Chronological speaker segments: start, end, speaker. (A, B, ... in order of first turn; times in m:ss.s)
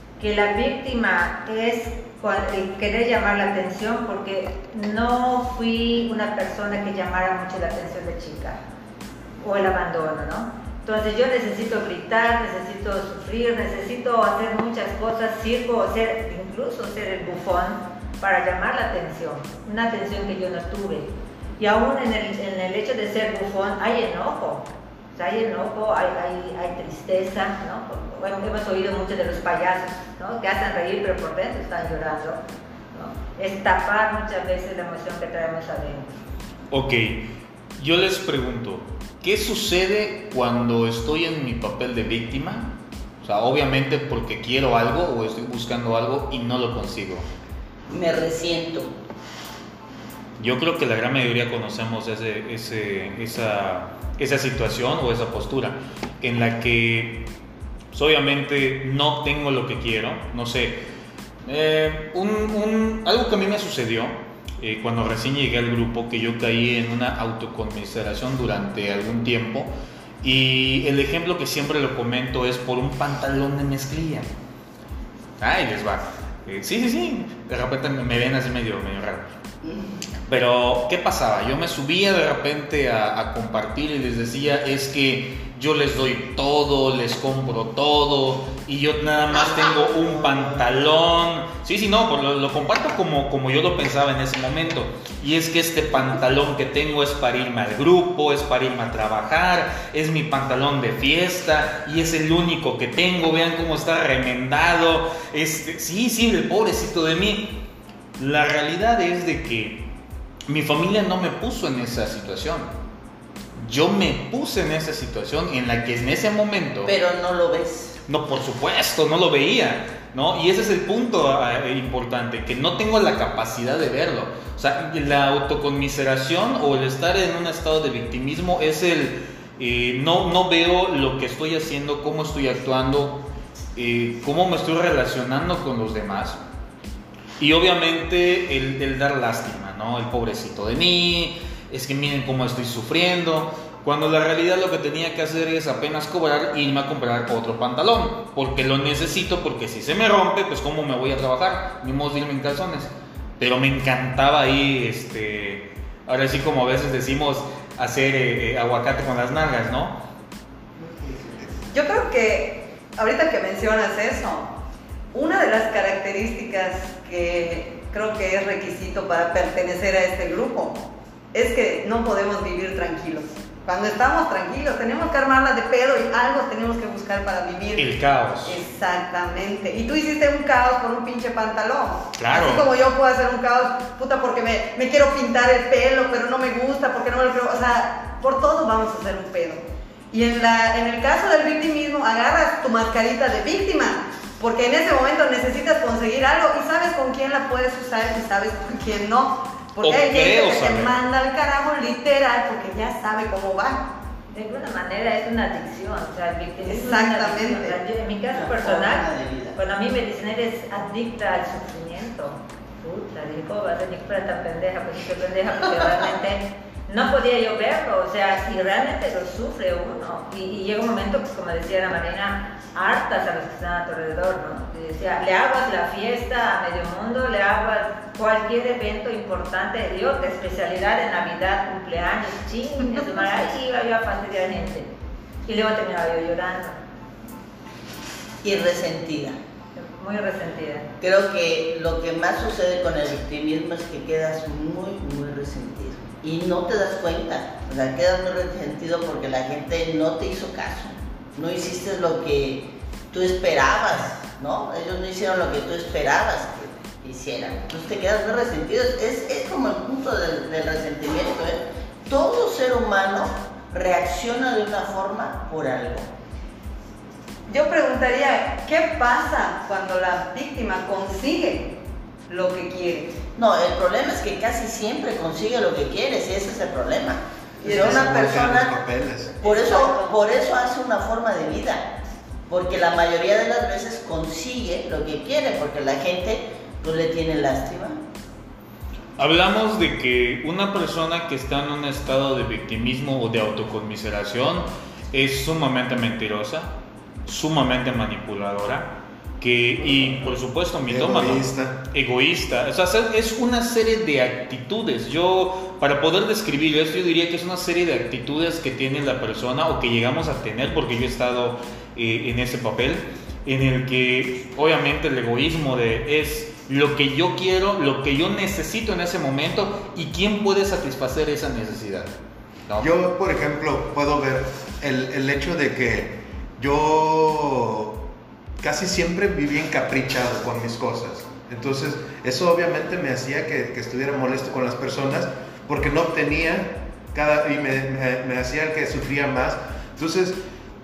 0:00.2-0:08.6 A
0:09.4-0:32.4 A
0:32.9-0:36.2 A
0:36.7-0:47.3 B
0:47.9-0:48.9 C
0:50.4-0:57.3 B
0:57.9-1:00.8 B
1:01.5-1:09.7 B
1:10.2-1:14.3 B
1:15.4-1:19.3 B
1:19.6-1:20.0 C
1:20.3-1:49.9 B
1:29.3-1:30.8 C
1:50.5-1:52.7 B
1:53.6-1:56.9 B
1:56.8-1:58.0 C
1:58.1-2:16.4 B
2:17.4-2:40.0 B
2:40.8-2:41.6 C
2:41.7-2:44.5 D
2:45.1-2:50.8 D
2:51.3-2:57.9 D
2:57.8-2:58.6 B
2:58.4-3:23.9 D
3:02.2-3:02.7 B
3:19.8-3:21.0 B
3:24.3-3:54.9 A
3:26.7-3:27.8 D
3:28.3-3:29.6 C
3:55.4-3:56.8 A
3:58.4-3:59.4 C
3:59.8-4:00.9 A
4:01.0-4:26.1 C
4:27.5-4:31.8 D
4:32.3-4:33.2 D
4:33.4-4:38.7 C
4:37.6-4:38.1 D
4:37.6-4:39.4 E
4:39.4-4:41.9 C
4:39.4-4:40.2 D
4:42.5-4:48.0 C
4:49.2-4:56.7 B
4:57.3-5:22.1 B
5:00.9-5:01.8 E
5:22.8-5:28.1 E
5:28.6-5:40.4 E